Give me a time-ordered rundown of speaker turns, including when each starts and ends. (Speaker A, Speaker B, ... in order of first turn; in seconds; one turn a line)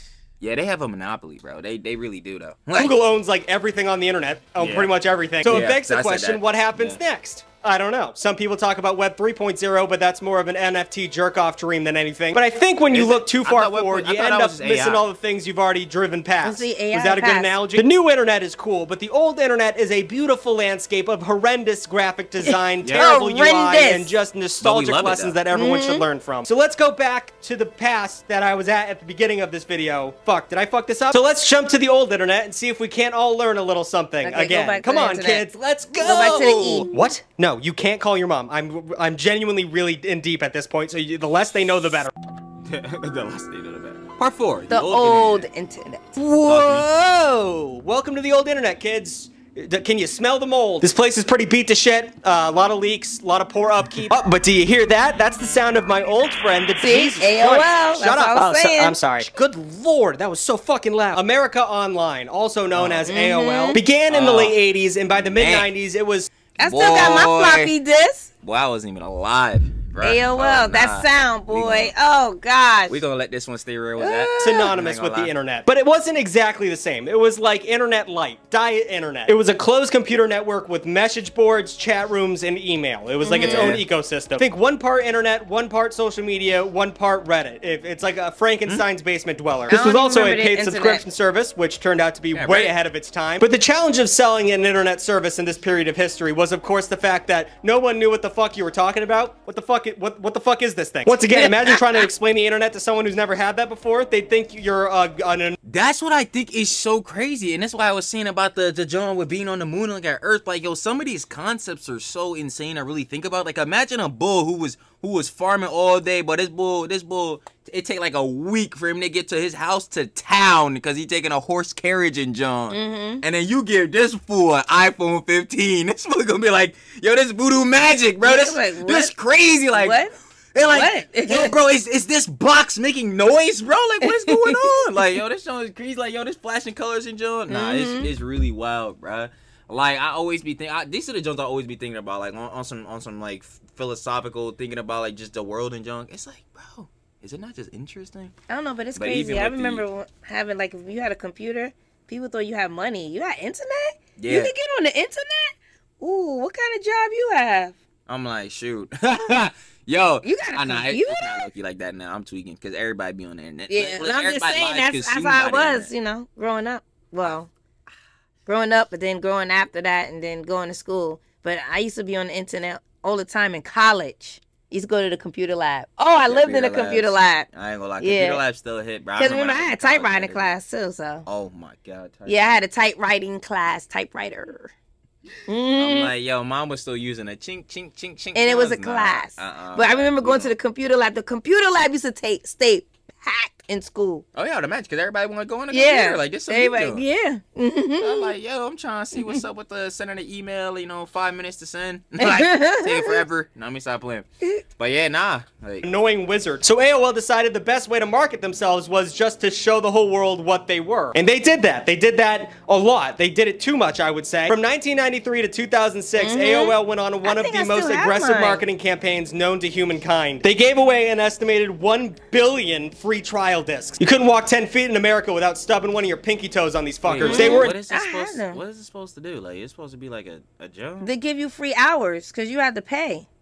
Speaker A: 0.4-3.0
Speaker B: 2.7-42.1
Speaker A: 4.6-4.9
Speaker A: 5.4-7.0
Speaker A: 12.9-15.0
Speaker C: 16.4-17.5
Speaker C: 22.4-24.1
Speaker A: 22.8-23.1
Speaker A: 24.6-25.4
Speaker C: 25.5-26.0
Speaker C: 34.2-36.9
Speaker A: 35.9-36.9
Speaker A: 42.6-45.4
Speaker C: 44.7-46.2
Speaker B: 46.2-66.3
Speaker A: 46.4-46.9
Speaker C: 56.8-59.0
Speaker A: 62.7-63.1
Speaker C: 63.0-63.8
Speaker A: 64.1-64.5
Speaker A: 65.1-65.7
Speaker C: 66.6-68.3
Speaker A: 66.6-67.7
Speaker A: 68.4-71.9
Speaker C: 70.0-73.0
Speaker A: 72.9-75.3
Speaker C: 74.0-74.7
Speaker B: 74.4-105.5
Speaker C: 83.2-83.8
Speaker A: 83.4-83.8
Speaker C: 89.7-91.0
Speaker A: 92.3-92.7
Speaker C: 101.3-102.1
Speaker A: 105.7-130.0
Speaker C: 122.7-123.2
Speaker C: 128.2-129.1
Speaker C: 129.7-130.1
Speaker A: 130.5-148.3
Speaker C: 130.7-131.5
Speaker C: 134.0-134.6
Speaker C: 137.5-138.1
Speaker C: 148.5-157.7
Speaker A: 148.9-149.8
Speaker A: 154.2-154.5
Speaker A: 158.1-165.9
Speaker C: 160.2-161.4
Speaker C: 163.7-167.5
Speaker C: 168.4-177.5
Speaker A: 176.2-180.6
Speaker C: 178.0-178.4
Speaker C: 179.2-181.2
Speaker A: 181.2-182.5
Speaker C: 182.3-184.7
Speaker C: 185.5-186.1
Speaker A: 185.8-190.5
Speaker C: 188.3-194.2
Speaker A: 194.3-197.0
Speaker C: 195.7-198.3
Speaker A: 198.0-205.9
Speaker C: 199.2-199.4
Speaker C: 202.2-203.2
Speaker B: 205.8-227.7
Speaker C: 216.2-218.6
Speaker A: 227.0-231.1
Speaker C: 227.2-228.6
Speaker C: 231.0-233.3